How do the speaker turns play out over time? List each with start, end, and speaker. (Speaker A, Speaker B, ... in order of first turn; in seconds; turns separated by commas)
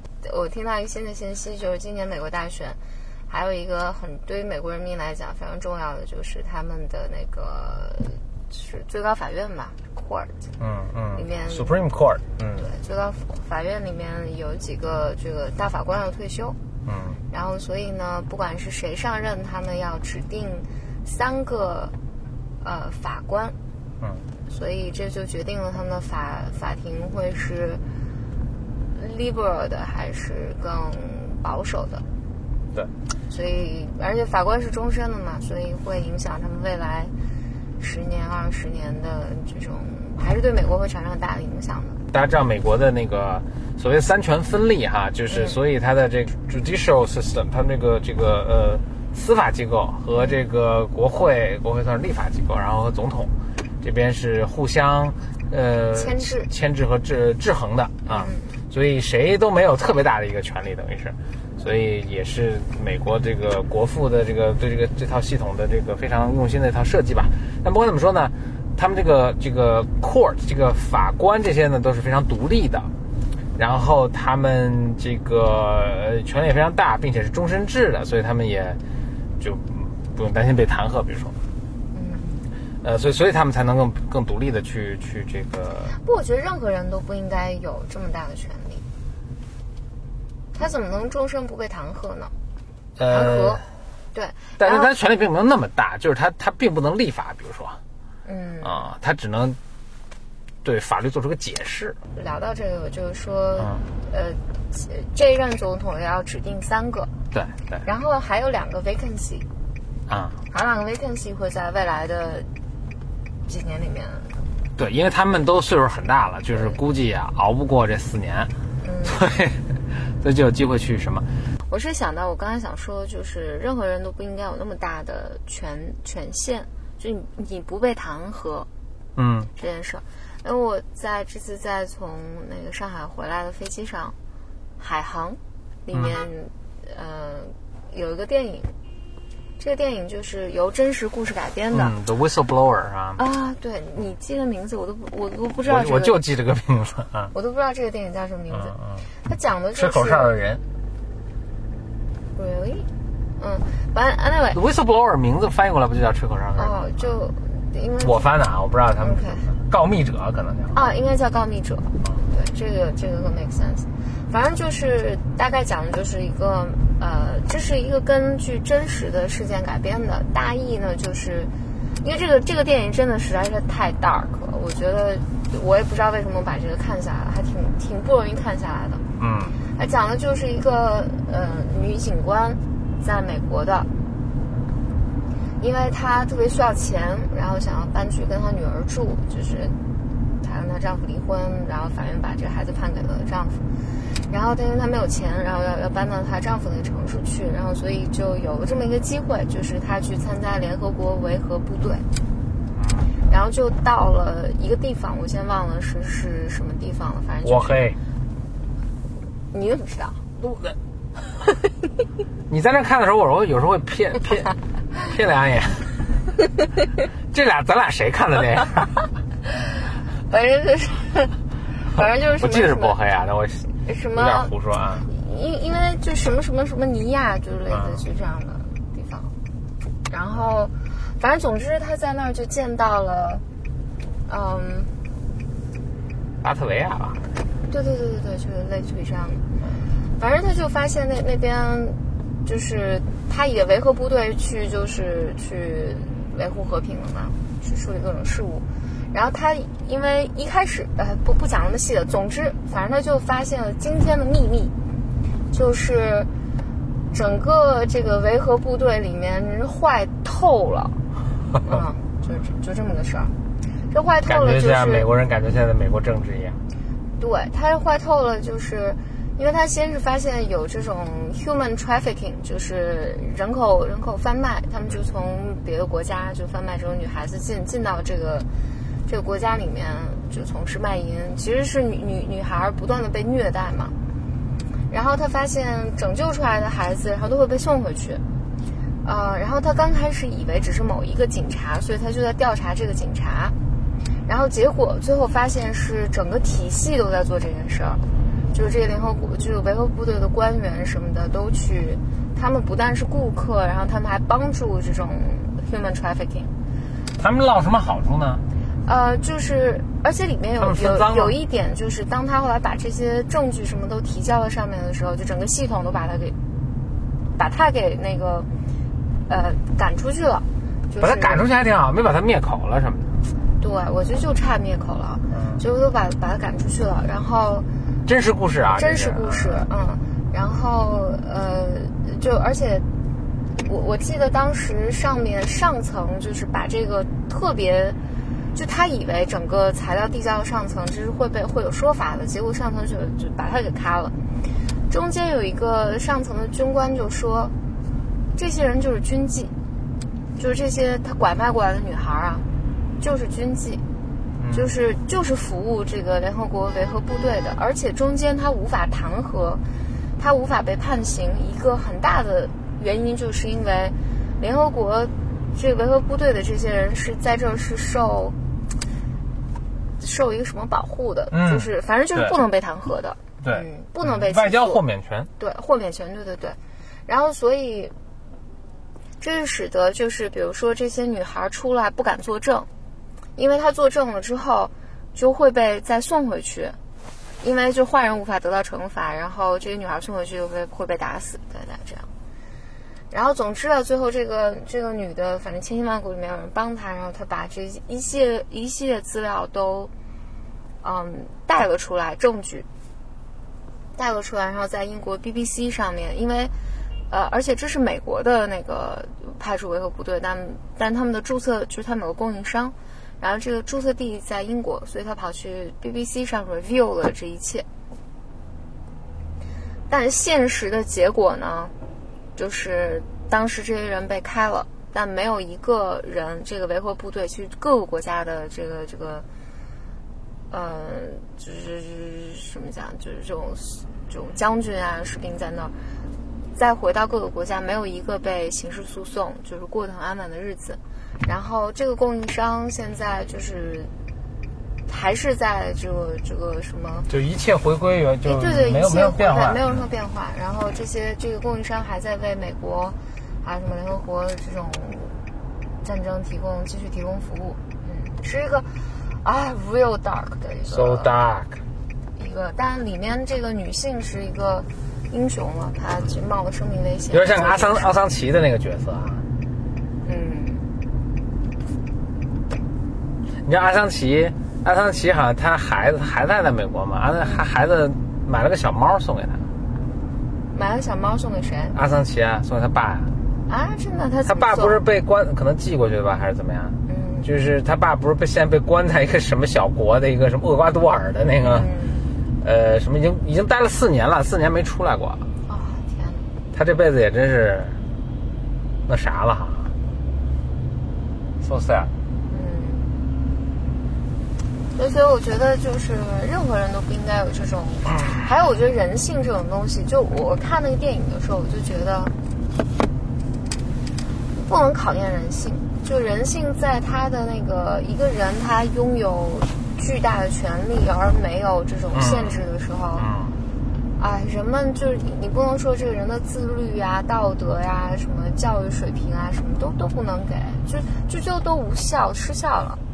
Speaker A: 0.2-10.3, Speaker B: 10.6-12.7, Speaker A: 11.1-11.8, Speaker A: 12.6-16.6, Speaker B: 16.9-17.2, Speaker A: 17.3-21.9, Speaker A: 22.6-23.6, Speaker A: 24.5-27.8, Speaker A: 28.9-32.0, Speaker A: 33.3-37.1, Speaker A: 37.8-42.0, Speaker B: 42.1-72.9, Speaker A: 45.3-45.5, Speaker A: 50.1-50.4, Speaker A: 56.0-56.5, Speaker A: 58.1-58.5, Speaker B: 73.6-78.8, Speaker B: 79.4-81.4, Speaker A: 81.9-82.5, Speaker B: 82.8-86.0, Speaker A: 85.9-88.8, Speaker A: 90.5-92.3, Speaker B: 93.0-93.6, Speaker A: 93.1-94.9, Speaker B: 94.6-97.8, Speaker A: 98.2-98.9, Speaker B: 98.6-99.6, Speaker B: 100.6-102.0, Speaker A: 102.1-107.1, Speaker B: 103.6-103.8, Speaker B: 107.3-107.9, Speaker A: 107.8-109.5, Speaker B: 110.1-110.4, Speaker A: 110.5-112.5, Speaker A: 113.5-114.4, Speaker B: 114.8-118.5, Speaker A: 118.8-119.2, Speaker B: 119.0-119.7, Speaker B: 120.2-121.3, Speaker A: 121.7-128.7, Speaker B: 129.2-129.5, Speaker A: 129.6-134.2, Speaker A: 134.8-138.7, Speaker A: 139.6-141.9, Speaker B: 141.7-143.2, Speaker A: 143.2-146.2, Speaker B: 145.6-147.3, Speaker A: 147.3-150.3, Speaker B: 148.5-148.9, Speaker B: 149.8-150.6, Speaker A: 152.4-154.6, Speaker B: 154.5-157.2, Speaker A: 156.6-158.3, Speaker B: 158.0-160.8, Speaker A: 159.0-159.5, Speaker A: 160.7-179.0, Speaker B: 179.2-179.6, Speaker A: 179.7-183.9, Speaker A: 185.6-189.8, Speaker A: 190.4-202.1, Speaker B: 202.8-203.1, Speaker A: 203.3-207.9, Speaker B: 207.4-208.0, Speaker A: 209.5-210.2, Speaker B: 210.4-210.7, Speaker B: 212.5-215.9, Speaker B: 217.3-219.0, Speaker A: 220.3-223.0, Speaker B: 222.0-225.1, Speaker A: 223.8-224.5, Speaker A: 225.1-229.3, Speaker B: 227.7-228.0, Speaker A: 230.1-233.4, Speaker A: 234.3-235.0, Speaker B: 236.4-237.3, Speaker A: 237.7-254.7, Speaker A: 255.5-256.3, Speaker A: 257.1-261.0, Speaker A: 261.6-263.3, Speaker A: 263.9-265.1, Speaker B: 264.3-266.6, Speaker A: 267.2-278.5, Speaker A: 279.1-283.9, Speaker A: 284.9-288.2, Speaker A: 289.0-293.6, Speaker A: 294.2-306.5, Speaker B: 307.2-308.4, Speaker A: 308.9-316.4, Speaker B: 310.6-311.3, Speaker A: 317.4-318.5, Speaker A: 319.3-321.4, Speaker B: 321.0-323.1, Speaker A: 323.6-327.7, Speaker B: 325.3-325.6, Speaker B: 328.1-329.7, Speaker A: 328.7-332.9, Speaker A: 333.6-338.0, Speaker A: 338.5-344.1, Speaker A: 344.9-347.5, Speaker A: 348.4-349.5, Speaker A: 350.4-352.4, Speaker A: 353.0-353.8, Speaker B: 354.4-354.7, Speaker A: 354.5-359.6, Speaker A: 360.2-368.4, Speaker A: 370.0-374.8, Speaker B: 371.3-372.4, Speaker B: 373.4-375.3, Speaker A: 375.4-377.9, Speaker A: 379.2-382.7, Speaker A: 383.4-386.8, Speaker A: 387.4-392.1, Speaker A: 393.1-399.9, Speaker A: 400.8-402.7, Speaker A: 404.0-406.5, Speaker A: 407.1-417.6, Speaker A: 419.9-421.7, Speaker A: 422.4-429.2, Speaker A: 430.5-435.7, Speaker A: 436.5-443.9, Speaker A: 444.9-447.1, Speaker B: 447.1-449.8, Speaker A: 448.2-455.1, Speaker A: 455.8-461.1, Speaker B: 460.7-461.6, Speaker A: 462.2-467.9, Speaker B: 467.1-469.2, Speaker A: 470.0-470.7, Speaker B: 473.4-479.4, Speaker A: 480.5-481.8, Speaker B: 481.8-483.1, Speaker A: 483.5-484.8, Speaker B: 484.2-491.7, Speaker A: 486.9-487.3, Speaker A: 491.4-492.1, Speaker B: 492.4-495.2, Speaker A: 495.5-496.3, Speaker B: 496.5-497.8, Speaker B: 498.9-499.7, Speaker B: 501.4-501.9, Speaker A: 502.3-502.9, Speaker A: 504.8-512.1, Speaker A: 514.3-523.1, Speaker B: 521.9-522.4, Speaker B: 523.0-523.4, Speaker A: 524.0-532.8